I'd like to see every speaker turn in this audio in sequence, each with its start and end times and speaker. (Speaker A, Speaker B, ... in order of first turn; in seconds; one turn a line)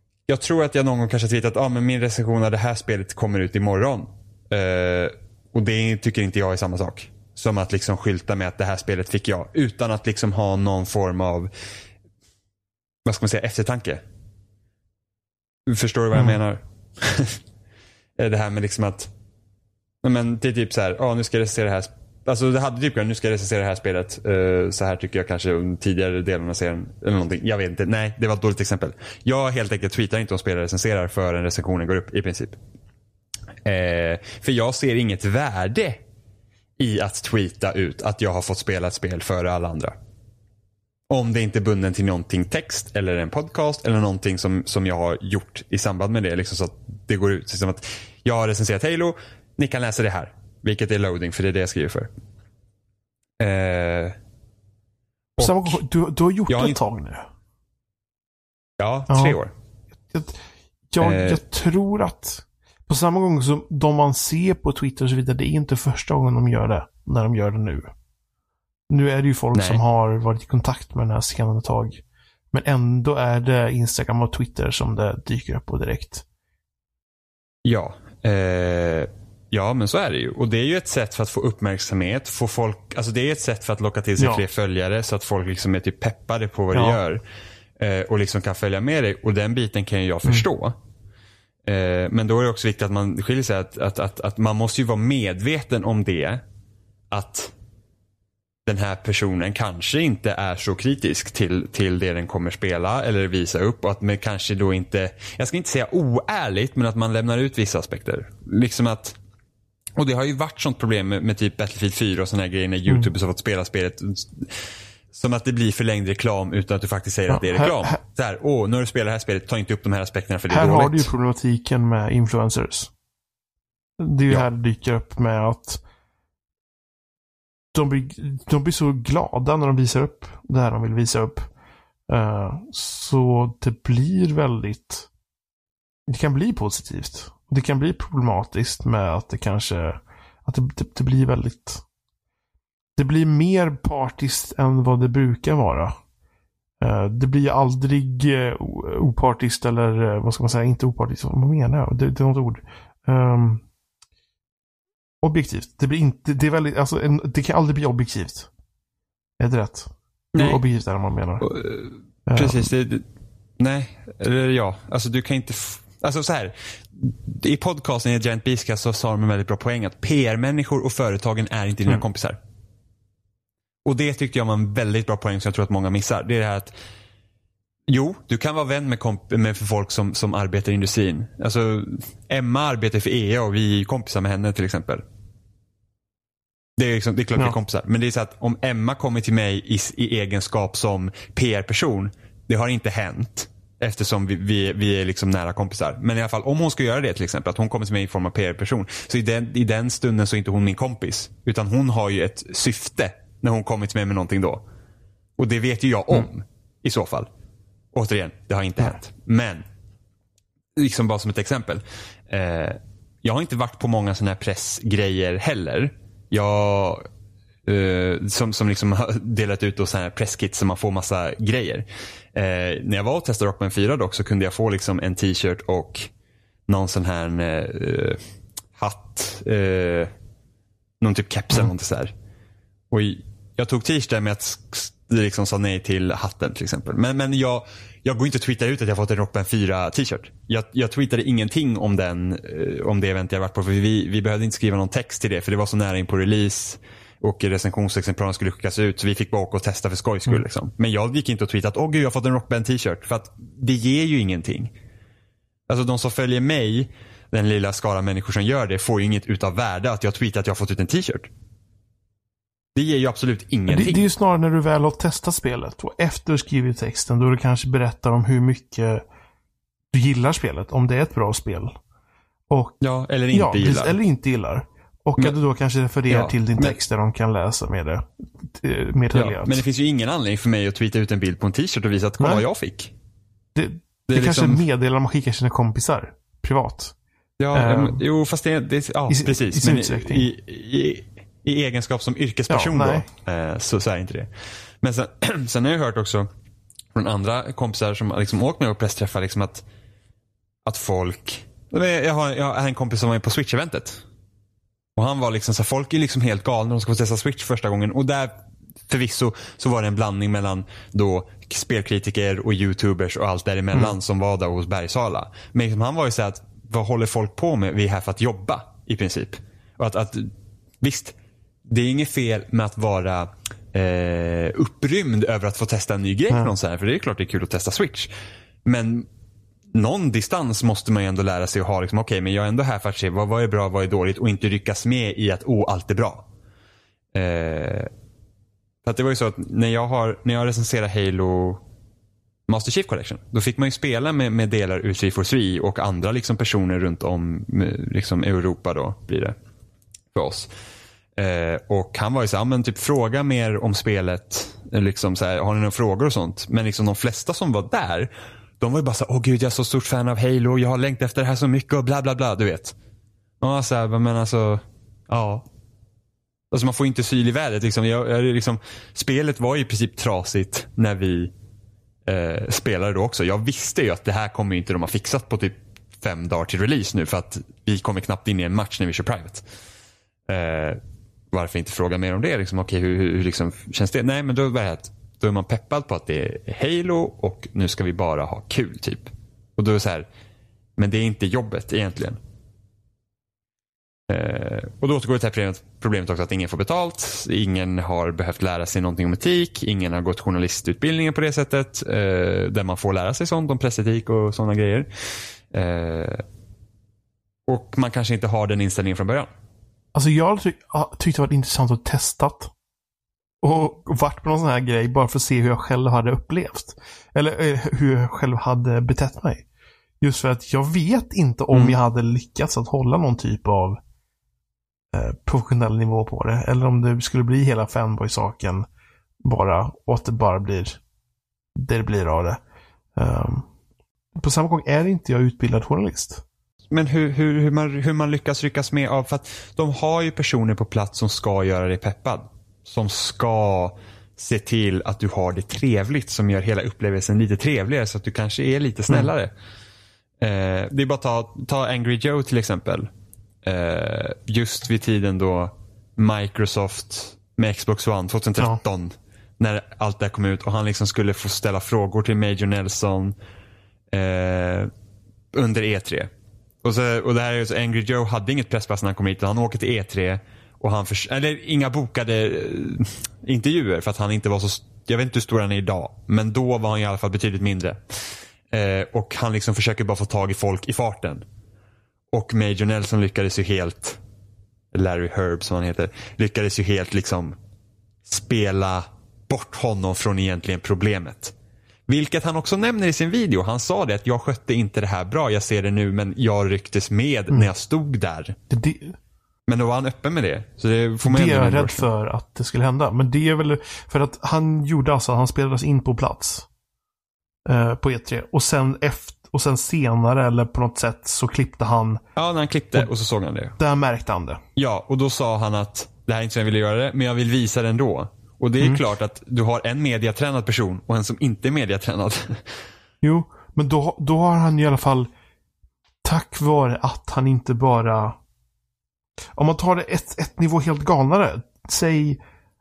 Speaker A: 0.3-11.5
Speaker A: 13.0-14.0
Speaker A: 15.7-17.4
Speaker A: 18.2-19.1
Speaker A: 20.0-32.6
Speaker A: 33.6-36.0
Speaker A: 36.8-39.9
Speaker A: 41.1-52.1
Speaker A: 53.4-54.1
Speaker A: 55.4-55.8
Speaker B: 55.4-57.3
Speaker A: 56.5-56.8
Speaker A: 58.8-59.5
Speaker B: 59.1-59.4
Speaker B: 60.1-67.9
Speaker A: 61.0-61.4
Speaker B: 68.9-76.2
Speaker A: 69.5-69.8
Speaker A: 77.6-87.2
Speaker B: 84.2-84.4
Speaker B: 86.7-87.0
Speaker A: 87.8-90.8
Speaker A: 91.6-96.4
Speaker A: 97.1-97.5
Speaker A: 98.7-109.2
Speaker A: 110.0-121.1
Speaker B: 117.3-118.0
Speaker B: 120.5-122.9
Speaker B: 124.0-125.8
Speaker B: 127.7-131.5
Speaker B: 132.1-135.1
Speaker B: 136.1-141.8
Speaker B: 143.0-145.9
Speaker B: 146.8-153.6
Speaker B: 155.2-158.5
Speaker B: 159.4-161.5
Speaker A: 160.3-160.6
Speaker A: 161.4-163.1
Speaker B: 162.3-162.7
Speaker A: 163.6-172.4
Speaker A: 173.8-176.7
Speaker A: 177.9-185.0
Speaker A: 186.8-204.6
Speaker A: 205.4-207.3
Speaker A: 207.9-209.6
Speaker A: 210.8-217.0
Speaker A: 217.6-226.1
Speaker A: 226.7-228.2
Speaker A: 228.7-230.1
Speaker A: 231.0-232.1
Speaker A: 232.9-254.7
Speaker A: 255.7-261.3
Speaker A: 262.7-264.1
Speaker B: 263.7-269.0
Speaker B: 269.9-271.8
Speaker B: 272.5-272.8
Speaker A: 272.8-274.0
Speaker B: 273.3-279.6
Speaker A: 276.1-276.8
Speaker A: 279.1-282.9
Speaker B: 282.2-282.4
Speaker B: 283.5-286.9
Speaker A: 284.1-284.6
Speaker A: 287.4-294.3
Speaker B: 287.5-288.0
Speaker B: 289.1-290.3
Speaker B: 292.5-293.1
Speaker A: 294.8-296.3
Speaker A: 296.9-299.6
Speaker A: 300.6-304.0
Speaker A: 304.9-328.1
Speaker A: 328.6-329.1
Speaker A: 329.7-336.3
Speaker A: 337.1-337.9
Speaker A: 338.8-341.6
Speaker A: 342.5-349.4
Speaker A: 350.1-350.5
Speaker A: 351.1-362.7
Speaker A: 363.4-365.4
Speaker A: 366.5-371.3
Speaker A: 372.1-379.4
Speaker A: 380.3-380.8
Speaker A: 381.3-390.1
Speaker A: 390.8-392.2
Speaker A: 394.1-404.9
Speaker A: 405.5-406.2
Speaker A: 407.5-409.3
Speaker B: 409.9-412.5
Speaker B: 413.4-419.4
Speaker B: 420.0-423.8
Speaker A: 421.5-421.8
Speaker B: 424.9-428.6
Speaker B: 429.2-430.8
Speaker B: 431.6-432.4
Speaker B: 432.9-433.5
Speaker B: 434.1-436.2
Speaker A: 436.7-449.3
Speaker A: 450.2-452.9
Speaker A: 453.4-463.1
Speaker A: 463.9-464.7
Speaker A: 465.3-466.1
Speaker A: 466.6-477.8
Speaker A: 478.5-481.2
Speaker A: 482.1-484.0
Speaker A: 484.7-487.4
Speaker A: 488.0-491.3
Speaker A: 491.9-498.4
Speaker B: 498.5-498.9
Speaker A: 499.5-501.9
Speaker B: 501.0-506.5
Speaker B: 507.4-512.0
Speaker A: 512.1-513.5
Speaker B: 513.6-514.4
Speaker A: 514.5-522.4
Speaker B: 518.6-518.8
Speaker B: 523.0-525.1
Speaker B: 526.0-528.2
Speaker B: 529.4-532.2